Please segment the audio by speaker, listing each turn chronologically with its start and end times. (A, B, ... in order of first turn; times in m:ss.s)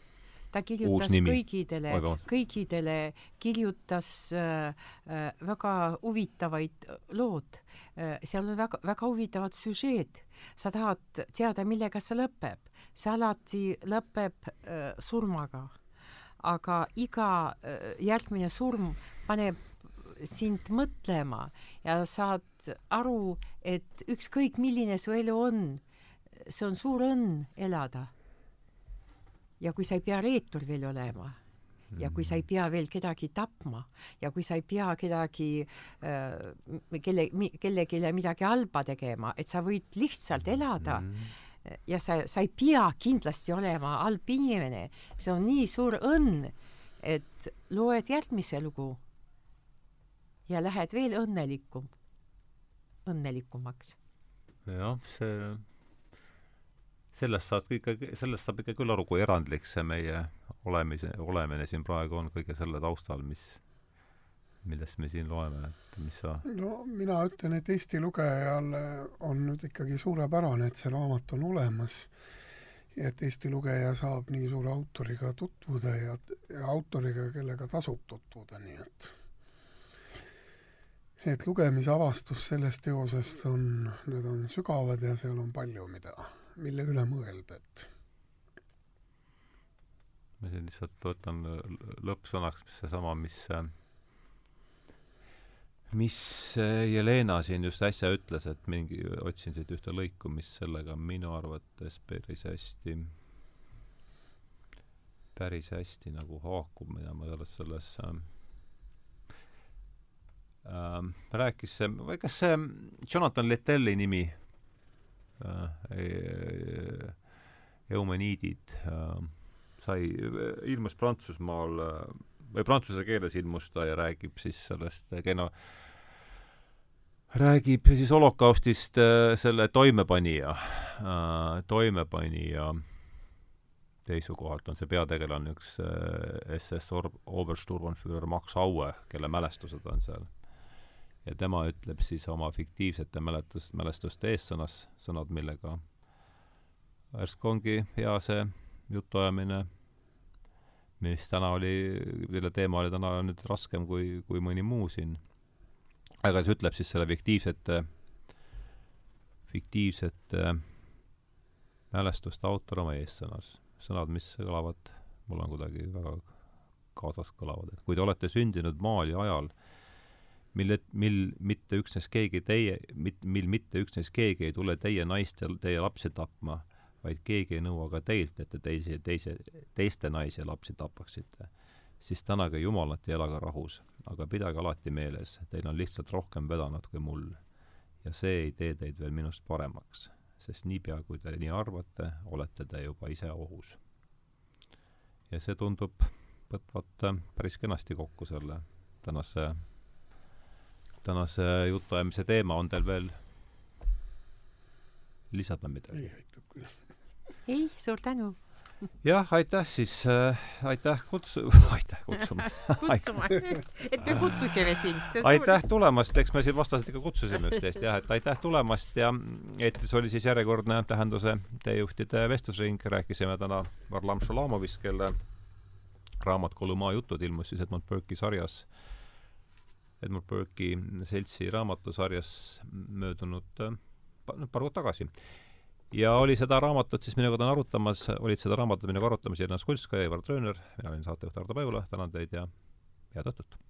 0:00.5-0:15.7 A
0:00.8-0:02.2 B
0:16.4-0:25.8 A
0:26.4-0:28.1 A
0:29.6-0:31.4 A
0:31.9-0:32.4 B
0:32.0-0:41.1 A
0:40.4-0:41.3 B
0:41.6-0:49.0 A
0:50.5-0:51.9 A
0:53.0-0:54.0 A
0:54.6-0:55.7 B
0:57.1-1:03.6 B
1:04.6-1:06.4 B
1:06.4-1:12.1 C
1:12.9-1:19.1 C
1:21.2-1:27.9 C
1:30.4-1:33.7 B
1:35.9-1:43.1 B
1:45.3-1:48.3 B
1:50.6-1:54.5 B
1:55.4-1:57.3 B
1:57.9-2:06.2 B
2:07.3-2:13.4 B
2:14.0-2:26.0 B
2:27.1-2:29.7 B
2:31.0-2:35.2 B
2:36.2-2:38.0 B
2:39.5-2:41.1 B
2:41.9-2:49.6 B
2:50.5-3:13.8 B
3:15.3-3:19.7 B
3:21.0-3:23.2 B
3:25.3-3:26.3 B
3:25.9-3:26.7 C
3:27.4-3:28.4 A
3:29.0-3:33.5 B
3:32.6-3:35.6 A
3:35.2-3:45.2 B
3:46.2-3:48.8 B
3:50.0-3:55.1 B
3:55.9-4:02.5 B
4:03.1-4:03.6 B